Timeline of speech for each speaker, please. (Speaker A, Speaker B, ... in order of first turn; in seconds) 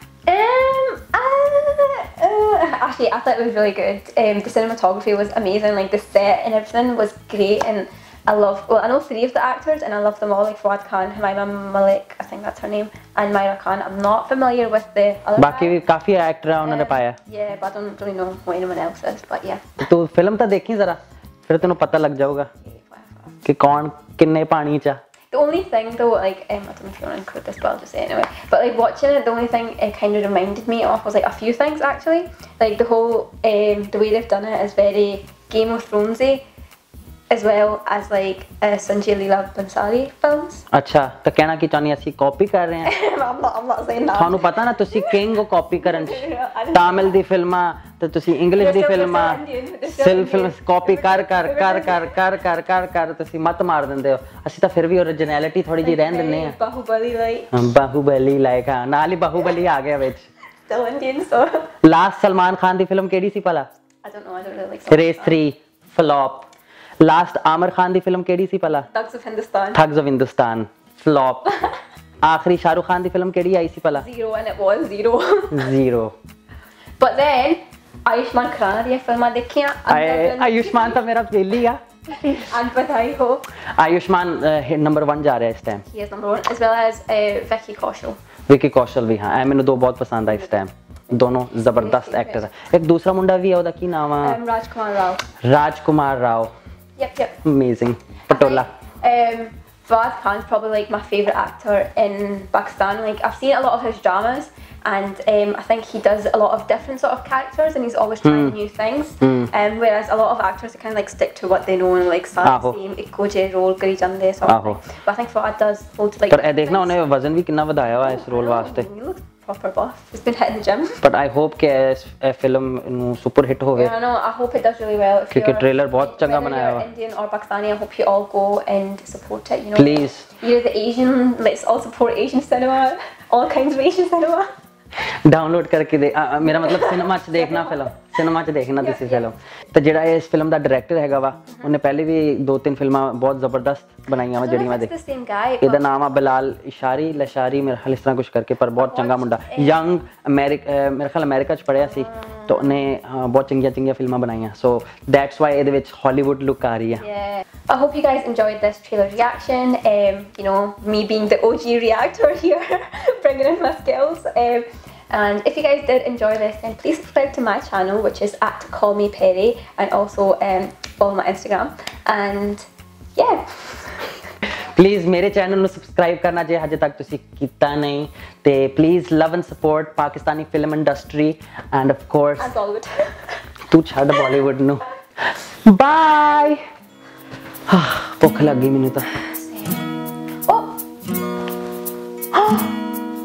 Speaker A: 0.3-15.8, 16.6-19.6, 22.6-23.4, 25.3-36.4, 37.3-40.7, 42.9-45.3, 45.8-47.2, 48.5-52.2, 55.8-57.5, 60.7-61.7, 64.0-65.4, 68.9-69.8, 71.5-71.8, 74.0-75.7, 77.0-81.0, 82.1-83.4, 85.9-88.2, 91.3-92.5, 94.2-95.2, 97.0-97.4, 98.3-117.0, 118.0-121.0, 123.8-134.5, 136.4-137.9, 138.8-139.3, 144.3-146.0, 148.8-149.8, 151.8-152.8, 157.0-172.7, 173.2-174.2, 182.4-183.4, 189.1-189.9, 190.5-190.8
Speaker B: 15.4-17.2, 19.8-22.5, 23.4-25.0, 40.7-42.9, 44.1-56.5, 57.5-60.3, 61.8-63.7, 64.9-66.5, 67.0-68.9, 69.8-71.5, 72.2-74.0, 75.5-76.2, 79.9-82.4, 83.7-85.8, 88.5-94.4, 95.4-96.5, 97.4-98.7, 108.2-108.5, 109.2-109.5, 112.4-112.8, 114.5-114.8, 116.3-118.9, 121.0-123.9, 125.3-126.8, 129.8-130.3, 135.3-144.9, 145.6-157.1, 174.5-182.5, 183.7-186.6, 187.7-189.1